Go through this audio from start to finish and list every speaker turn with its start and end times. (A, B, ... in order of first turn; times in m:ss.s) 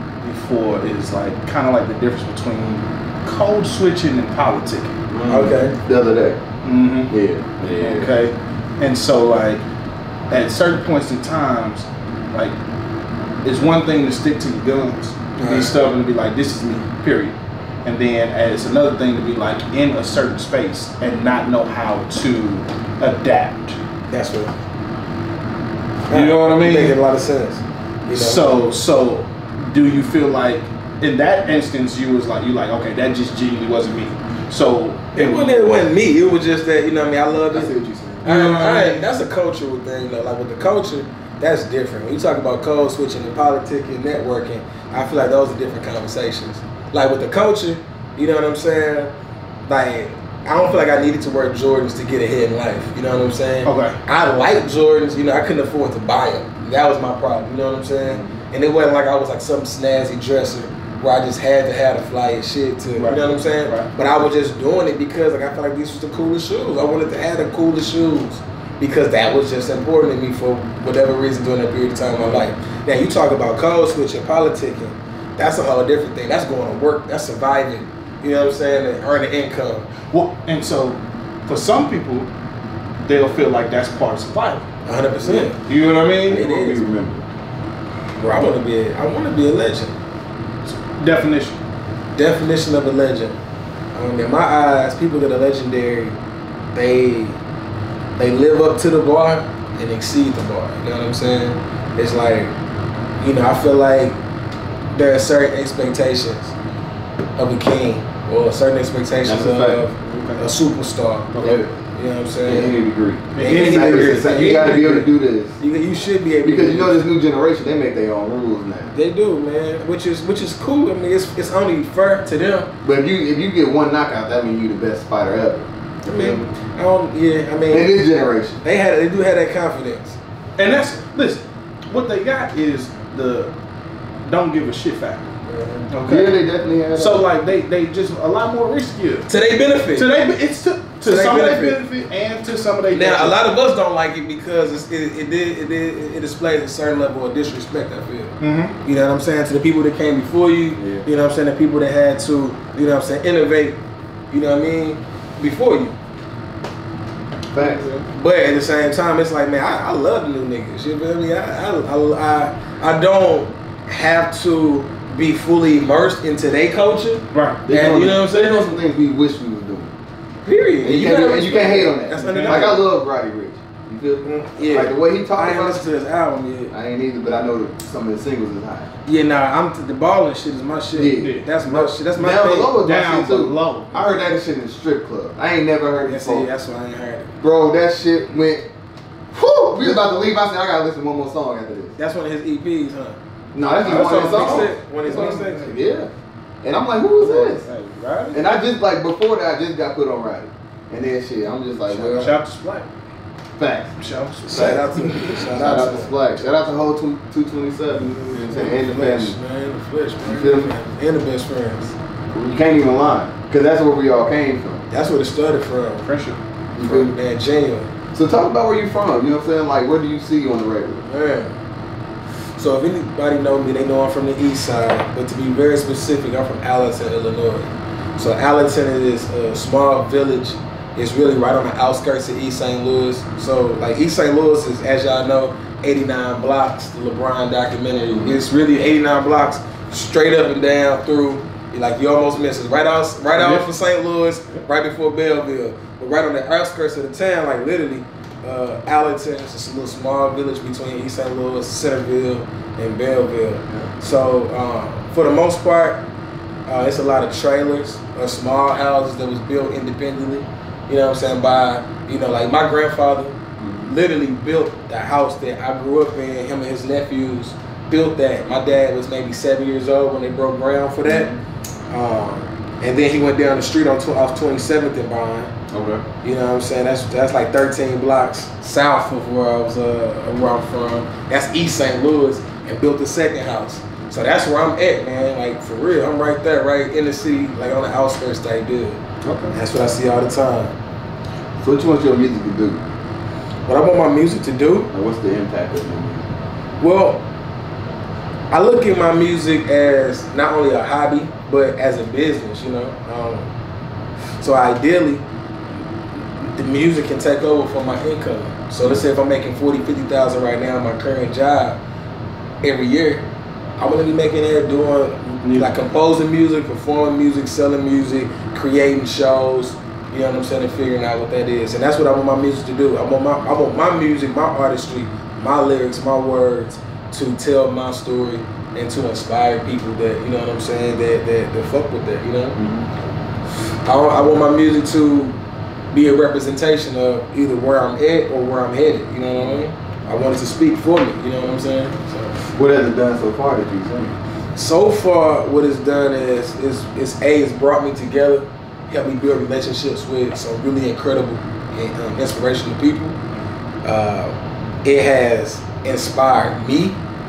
0:00.2-0:05.5 A
0:05.1-0:06.4 B
0:05.3-0:05.8 C
0:06.6-0:07.1 A
0:07.1-0:08.1 B
0:07.8-0:09.6 A
0:10.3-0:12.6 A
0:13.4-0:23.8 A
0:15.4-0:15.8 C
0:24.1-0:24.5 C
0:26.1-0:28.6 C
0:26.1-0:27.0 A
0:28.1-0:35.8 A
0:35.2-0:37.7 C
0:37.5-0:38.3 B
0:38.2-0:49.1 C
0:38.2-0:39.1 A
0:49.7-1:19.9 C
0:53.6-0:54.0 A
1:03.0-1:03.9 A
1:12.1-1:12.4 A
1:20.1-1:22.3 A
1:23.0-1:24.7 A
1:24.9-1:25.6 C
1:25.2-1:27.2 A
1:26.3-1:26.8 C
1:26.6-1:27.2 B
1:28.2-1:30.0 C
1:30.6-1:31.6 A
1:32.2-1:33.4 C
1:33.9-1:36.2 C
1:36.7-1:37.4 C
1:38.2-1:42.5 C
1:43.2-1:44.2 C
1:44.9-1:46.5 C
1:47.4-1:52.7 C
1:49.2-1:49.8 B
1:50.0-1:50.4 A
1:51.3-1:51.6 A
1:51.4-1:51.7 B
1:52.5-1:55.6 B
1:53.3-1:55.1 A
1:53.4-1:55.0 C
1:55.6-1:57.0 C
1:56.4-1:58.9 B
1:58.9-2:02.7 C
2:02.8-2:06.5 B
2:06.0-2:07.9 C
2:07.7-2:08.6 B
2:08.6-2:10.2 C
2:10.6-2:13.5 A
2:14.2-2:15.3 A
2:15.5-2:15.8 C
2:15.9-2:16.4 A
2:16.1-2:17.2 B
2:17.0-2:19.3 A
2:19.3-2:20.1 C
2:20.0-2:23.4 A
2:21.0-2:21.8 C
2:22.9-2:33.8 C
2:28.4-2:28.8 A
2:30.8-2:31.1 B
2:34.3-2:36.0 C
2:37.5-2:37.9 B
2:37.6-2:38.1 A
2:38.1-2:48.7 C
2:47.3-2:47.6 A
2:47.7-2:50.0 B
2:50.4-2:52.8 C
2:50.8-2:55.9 B
2:52.2-2:52.8 A
2:54.2-2:56.7 C
2:56.7-2:58.9 B
2:59.1-3:02.8 C
3:00.9-3:01.4 B
3:01.2-3:04.1 A
3:02.2-3:06.5 B
3:06.1-3:07.4 C
3:07.4-3:08.7 B
3:09.3-3:12.0 B
3:12.0-3:13.2 C
3:13.5-3:16.1 B
3:13.8-3:15.7 A
3:13.9-3:15.7 C
3:16.6-3:17.6 B
3:17.2-3:18.6 A
3:18.3-3:22.3 B
3:21.9-3:22.9 A
3:23.6-3:23.9 B
3:24.0-3:25.9 A
3:24.5-3:26.2 C
3:24.5-3:24.9 B
3:25.5-3:29.4 B
3:28.0-3:28.7 A
3:28.5-3:31.9 C
3:30.2-3:30.7 B
3:32.3-3:34.9 B
3:34.9-3:36.1 C
3:36.0-3:36.4 A
3:36.8-3:37.2 B
3:36.8-3:37.9 C
3:38.1-3:41.1 B
3:41.1-3:41.5 C
3:42.6-4:16.0 C
3:58.1-3:58.4 B
4:03.3-4:03.7 A
4:16.7-4:31.3 C
4:23.6-4:23.9 B
4:31.1-4:31.4 B
4:31.9-4:35.5 C
4:35.7-4:36.0 B
4:36.2-4:49.0 C
4:49.2-4:49.5 A
4:49.5-4:50.7 C
4:51.6-4:52.8 B
4:53.7-4:54.9 C
4:54.9-4:56.3 B
4:56.8-4:57.2 C
4:58.5-5:03.5 C
5:04.4-5:05.2 C
5:06.6-5:11.8 C
5:12.6-5:13.2 C
5:13.8-5:32.6 C
5:15.4-5:15.7 A
5:32.6-5:32.9 B
5:33.8-5:35.4 C
5:35.9-5:42.4 C
5:42.5-5:44.2 B
5:44.6-5:53.2 C
5:53.8-5:57.0 C